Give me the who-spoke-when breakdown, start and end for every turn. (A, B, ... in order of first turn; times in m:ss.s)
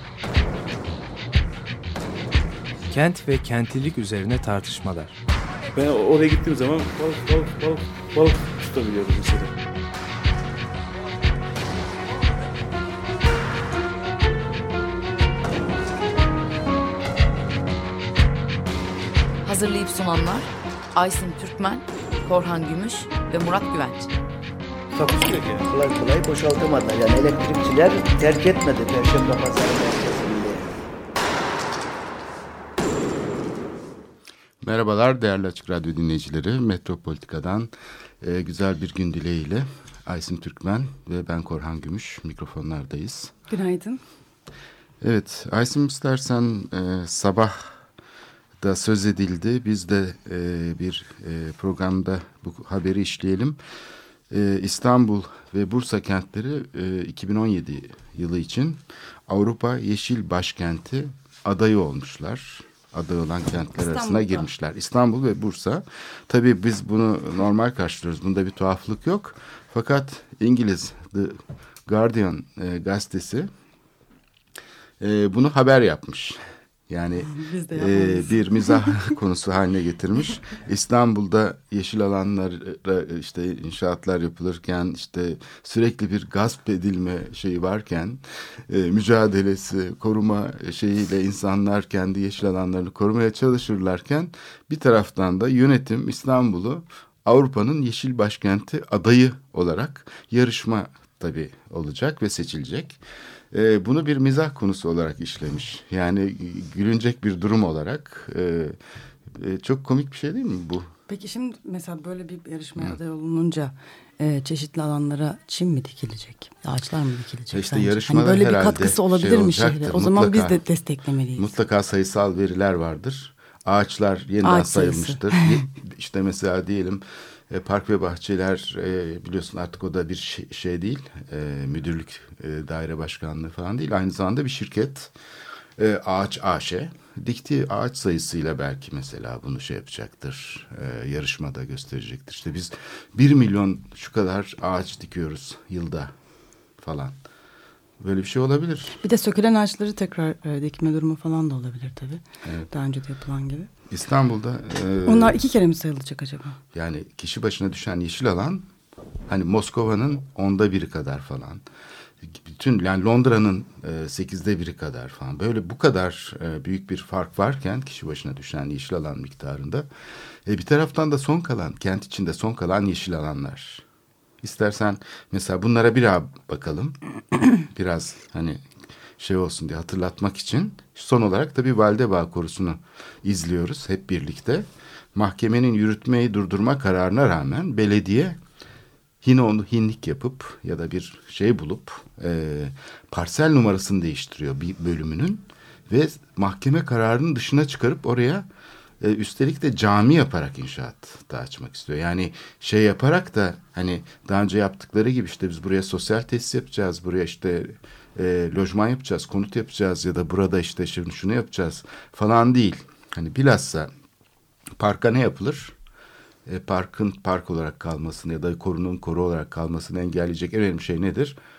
0:02.9-0:05.2 A
0:05.7-0:09.5 B
0:19.4-0:24.1 C
0:25.0-0:25.7 B
0:25.7-0:30.8 D
0:34.6-0:43.3 E
0:43.5-0:44.0 F
0:45.0-0:47.7 E
0:48.6-0:53.6 E
0:54.3-1:13.5 E
1:03.8-1:04.4 F
1:15.0-1:16.4 E
1:16.9-1:43.0 E
1:17.2-1:19.1 F
1:43.5-1:48.8 E
1:49.4-1:50.9 E
1:51.1-2:01.5 F
1:57.5-2:00.6 E
2:01.4-2:15.1 E
2:04.4-2:05.6 F
2:15.8-2:26.1 E
2:26.8-2:27.2 E
2:28.0-2:29.0 E
2:29.0-2:33.7 F
2:33.9-2:35.4 E
2:35.0-2:36.6 F
2:36.7-2:38.7 E
2:39.3-2:41.6 E
2:42.3-2:49.9 E
2:50.5-2:53.8 E
2:54.4-2:58.6 E
2:59.2-3:08.4 E
3:09.2-3:18.5 E
3:19.0-3:33.9 E
3:34.8-3:35.8 E
3:36.5-3:41.4 E